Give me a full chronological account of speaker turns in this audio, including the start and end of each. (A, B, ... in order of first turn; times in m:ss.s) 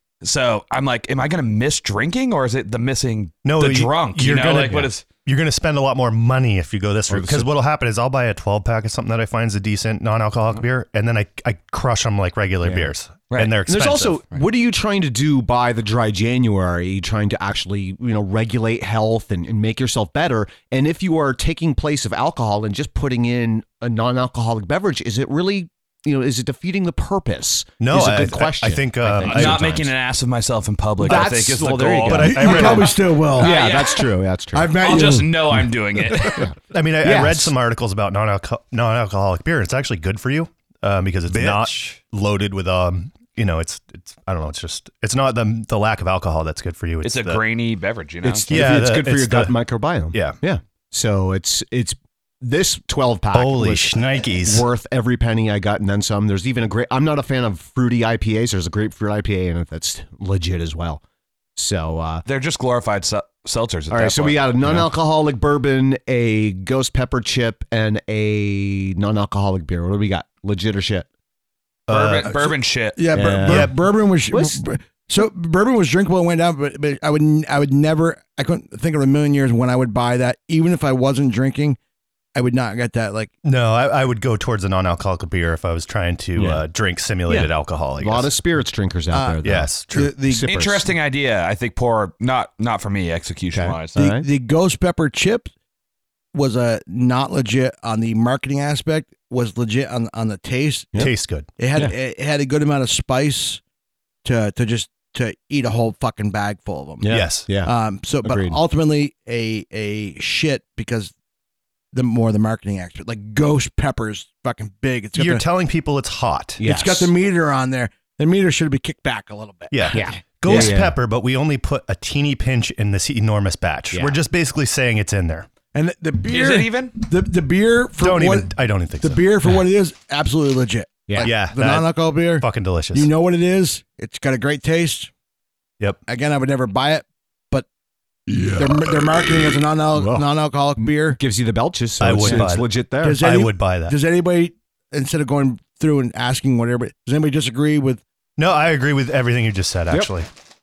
0:00.2-0:05.0 A
0:03.4-0:14.2 B
0:07.1-0:07.5 C
0:12.6-0:12.9 C
0:13.3-0:13.5 A
0:13.7-0:29.9 C
0:27.8-0:29.9 B
0:29.2-0:34.1 A
0:31.0-0:34.8 C
0:32.1-0:33.0 B
0:32.2-0:33.6 D
0:34.5-0:35.4 D
0:34.8-0:36.4 A
0:36.3-0:37.5 C
0:36.7-0:47.4 B
0:41.3-0:41.7 C
0:47.0-0:48.5 A
0:48.2-1:01.0 C
0:48.5-0:49.6 B
0:53.3-0:54.6 B
1:01.6-1:02.2 C
1:02.3-1:04.5 A
1:03.9-1:11.1 C
1:11.9-1:12.3 B
1:11.9-1:13.0 A
1:12.3-1:21.8 D
1:13.1-1:13.7 C
1:13.3-1:13.8 B
1:14.3-1:14.6 C
1:22.4-1:23.3 D
1:23.4-1:28.3 B
1:26.4-1:26.6 C
1:27.3-1:30.9 C
1:29.1-1:30.5 D
1:29.4-1:30.1 B
1:30.5-1:34.0 A
1:33.5-1:34.3 C
1:34.0-1:35.5 D
1:36.3-1:43.6 D
1:41.0-1:41.5 B
1:44.2-1:51.1 D
1:47.0-1:47.7 C
1:47.1-1:47.5 B
1:48.2-1:48.6 C
1:51.9-1:55.4 D
1:55.2-1:56.6 B
1:56.6-1:57.1 C
1:56.6-2:00.7 D
1:59.7-2:05.5 B
1:59.9-2:01.0 C
2:03.9-2:04.2 C
2:05.7-2:15.1 D
2:06.3-2:06.9 A
2:08.0-2:09.3 B
2:11.1-2:11.3 C
2:11.2-2:13.1 B
2:16.1-2:17.7 D
2:18.5-2:21.2 D
2:19.9-2:23.2 C
2:22.0-2:24.0 B
2:22.2-2:22.5 D
2:23.0-2:28.0 D
2:28.4-2:30.3 B